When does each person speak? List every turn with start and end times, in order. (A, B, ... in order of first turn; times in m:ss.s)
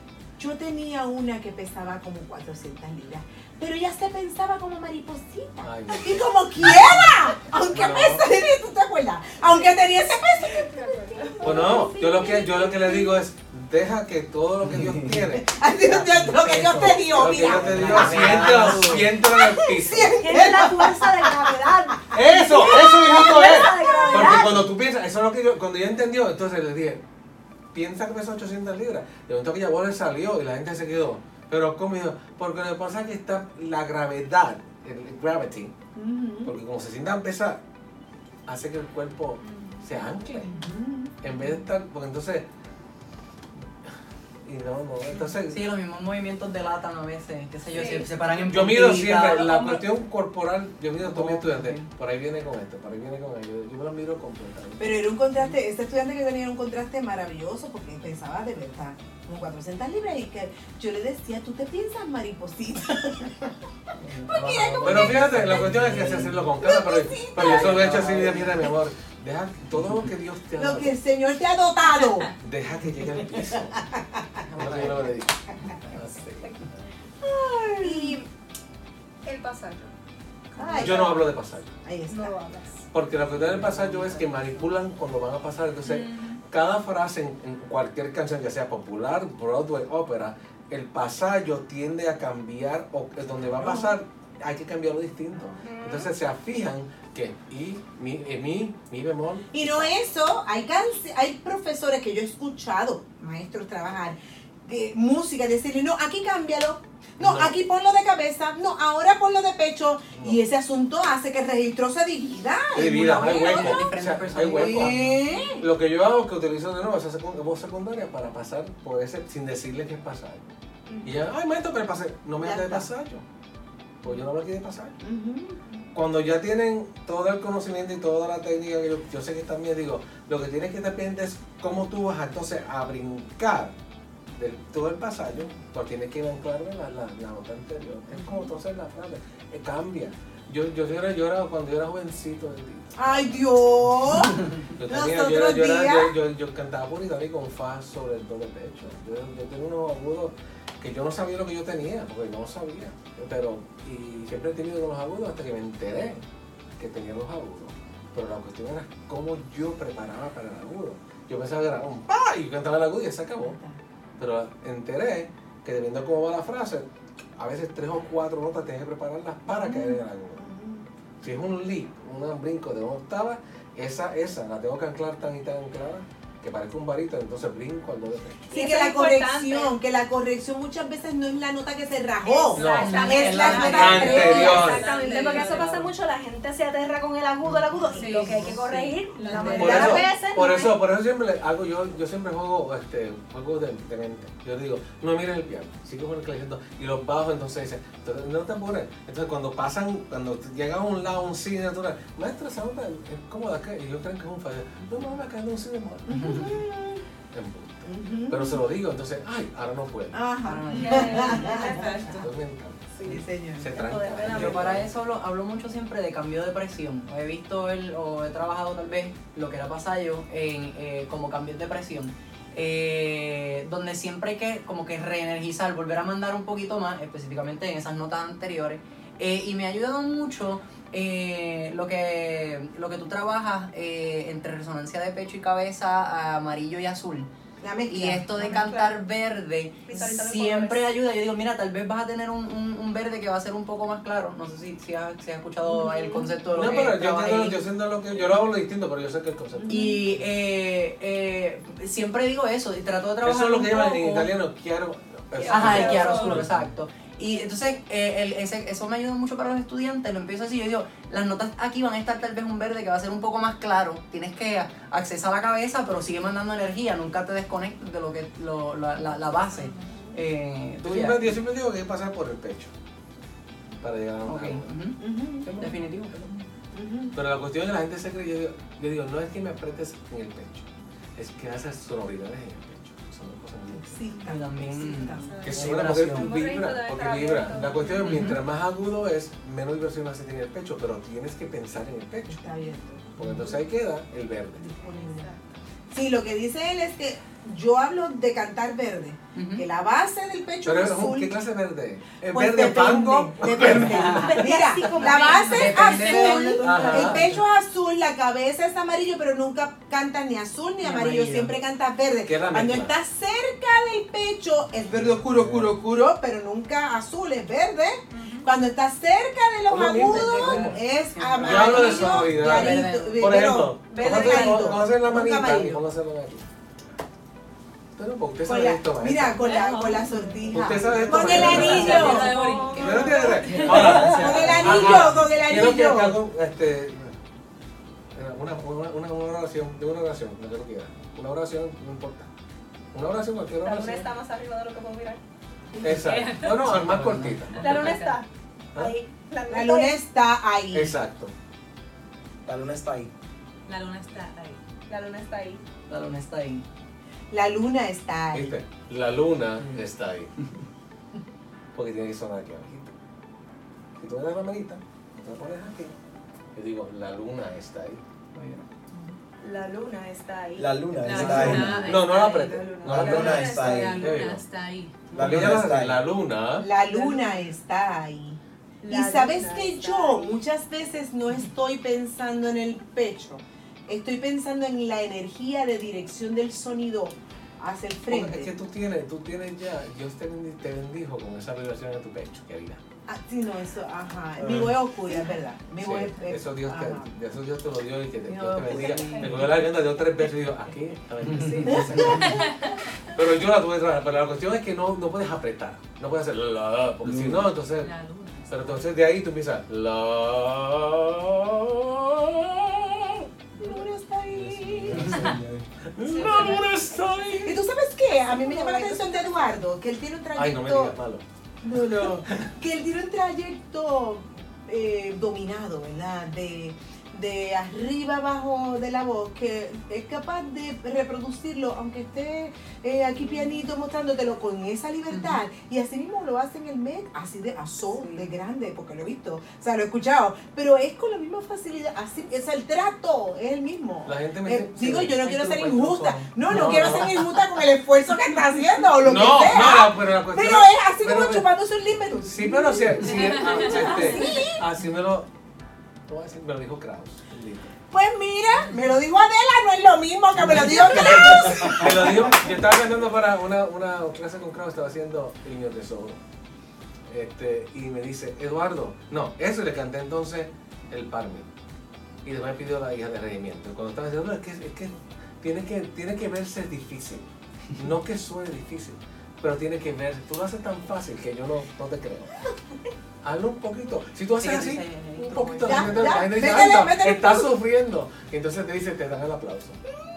0:00.4-0:13.1 A
0:05.6-0:06.9 B
0:07.7-0:08.2 B
0:10.4-0:12.1 C
0:11.4-0:16.3 B
0:15.3-0:21.7 A
0:16.4-0:16.9 D
0:16.7-0:17.0 E
0:17.1-0:20.5 B
0:17.4-0:19.0 D
0:17.7-0:19.0 E
0:20.2-0:24.6 C
0:22.1-0:27.0 B
0:22.9-0:24.5 A
0:27.7-0:35.7 B
0:36.0-0:36.5 A
0:36.4-0:37.6 B
0:38.4-0:40.5 B
0:39.4-0:39.9 F
0:40.4-0:41.2 A
0:41.2-0:42.4 B
0:44.4-0:45.6 B
0:45.5-0:49.8 E
0:47.7-0:48.3 F
0:48.4-0:54.9 B
0:51.0-0:51.9 E
0:54.8-1:03.5 A
1:04.0-1:06.4 E
1:04.1-1:08.0 A
1:04.8-1:11.0 B
1:07.4-1:08.5 E
1:07.7-1:08.4 D
1:10.6-1:12.3 A
1:12.4-1:13.8 B
1:13.7-1:14.3 A
1:14.5-1:15.1 E
1:14.6-1:16.5 B
1:15.5-1:16.0 A
1:17.2-1:18.2 A
1:17.8-1:18.2 C
1:19.2-1:19.9 C
1:20.6-1:21.2 A
1:20.7-1:21.1 C
1:20.7-1:21.7 B
1:21.8-1:22.4 A
1:22.1-1:22.8 C
1:22.9-1:39.9 B
1:23.5-1:24.3 E
1:25.9-1:26.4 F
1:35.6-1:36.1 C
1:39.5-1:53.8 A
1:47.2-1:47.6 B
1:50.1-1:50.4 B
1:52.7-1:55.1 B
1:53.2-1:55.1 E
1:54.5-1:55.6 A
1:55.3-1:55.6 C
1:55.6-2:00.5 B
2:00.9-2:01.2 C
2:01.0-2:03.2 B
2:02.4-2:02.9 A
2:04.0-2:05.0 B
2:05.0-2:05.6 A
2:05.9-2:13.7 B
2:14.3-2:23.4 B
2:23.0-2:26.1 A
2:24.8-2:36.2 B
2:36.8-2:43.6 B
2:43.4-2:43.8 A
2:44.2-2:50.5 B
2:49.6-2:50.8 A
2:51.2-2:58.5 B
2:58.5-2:59.7 C
2:58.5-3:04.9 A
3:02.2-3:10.7 C
3:02.5-3:05.9 F
3:02.5-3:04.9 B
3:07.9-3:10.3 F
3:09.3-3:10.0 A
3:09.6-3:26.5 B
3:26.1-3:27.0 A
3:26.1-3:26.5 E
3:27.3-3:30.2 B
3:27.9-3:28.6 A
3:30.1-3:32.0 A
3:30.4-3:31.6 E
3:30.7-3:32.3 F
3:30.7-3:32.2 C
3:32.1-3:34.9 B
3:33.0-3:33.7 A
3:33.7-3:34.7 C
3:34.2-3:57.3 E
3:57.6-3:58.6 A
3:57.9-4:07.6 E
3:58.4-3:59.0 C
3:59.9-4:00.8 C
4:05.6-4:06.3 A
4:06.5-4:10.2 B
4:09.5-4:10.0 A
4:09.7-4:14.3 E
4:13.2-4:16.6 B
4:15.4-4:16.4 C
4:15.5-4:31.4 E
4:29.4-4:30.2 F
4:30.8-4:32.7 B
4:33.8-4:34.7 B
4:34.2-4:36.4 E
4:35.0-4:35.5 A
4:35.4-4:36.3 B
4:36.7-4:37.2 A
4:37.1-4:44.0 B
4:43.7-4:45.6 A
4:44.2-4:46.3 E
4:45.2-4:45.8 F
4:45.4-4:52.4 B
4:46.0-4:48.3 C
4:47.6-4:48.0 F
4:48.0-4:48.4 E
4:52.3-4:53.1 A
4:53.2-4:54.6 B
4:54.6-4:55.3 A
4:54.8-4:55.5 F
4:55.9-5:01.4 A
4:59.3-4:59.6 E
5:00.6-5:04.4 B
5:02.3-5:25.8 A
5:03.6-5:04.9 E
5:04.6-5:06.5 C
5:04.9-5:06.5 F
5:05.4-5:07.4 E
5:06.6-5:07.2 B
5:11.0-5:11.5 E
5:12.2-5:13.0 B
5:14.9-5:15.7 B
5:18.1-5:18.5 F
5:19.7-5:20.8 B
5:20.0-5:23.4 E
5:21.4-5:26.5 B
5:23.9-5:24.8 C
5:28.0-5:29.4 B
5:28.4-5:36.2 A
5:29.4-5:34.0 F
5:30.5-5:37.2 B
5:31.5-5:33.6 C
5:33.6-5:35.2 D
5:38.1-5:42.3 B
5:42.9-5:44.1 B
5:43.6-5:45.2 C
5:45.7-5:48.2 F
5:45.8-5:48.0 B
5:46.9-5:47.4 E
5:47.6-5:49.9 C
5:49.5-5:51.0 A
5:50.7-5:51.3 B
5:52.4-5:53.1 D
5:53.7-5:54.6 F
5:54.9-5:55.6 C
5:55.9-5:56.6 E
5:57.3-5:58.5 A
5:58.3-6:00.3 B
6:01.7-6:02.9 B
6:04.0-6:06.0 B
6:06.5-6:08.0 B
6:08.3-6:08.7 E
6:09.4-6:13.8 C
6:10.6-6:11.9 D
6:11.0-6:12.2 F
6:11.1-6:13.5 B
6:12.8-6:14.2 D
6:13.0-6:15.1 F
6:14.0-6:14.4 B
6:15.1-6:16.0 D
6:15.1-6:16.7 B
6:15.2-6:15.5 E
6:16.6-6:28.5 A
6:18.8-6:20.4 C
6:28.0-6:32.8 B
6:33.1-6:37.1 A
6:34.4-6:34.7 D
6:35.8-6:42.5 B
6:38.2-6:39.3 A
6:38.6-6:39.3 E
6:38.7-6:39.4 F
6:41.2-6:42.4 E
6:41.4-6:42.6 A
6:43.0-6:47.9 B
6:47.8-6:48.8 F
6:48.5-6:53.3 B
6:53.5-6:55.3 A
6:54.3-6:55.7 D
6:55.8-6:57.6 B
6:56.0-6:56.7 C
6:57.4-7:01.0 A
6:58.3-6:59.1 C
7:00.3-7:02.5 B
7:01.6-7:34.6 A
7:15.1-7:15.4 E
7:24.0-7:27.2 B
7:25.2-7:26.2 E
7:29.0-7:31.5 B
7:32.2-7:35.3 B
7:36.1-7:37.7 B
7:37.9-7:42.5 A
7:40.4-7:46.2 B
7:47.1-7:51.5 B
7:52.2-8:02.3 B
8:03.2-8:09.8 B
8:04.4-8:06.2 E
8:05.6-8:07.5 A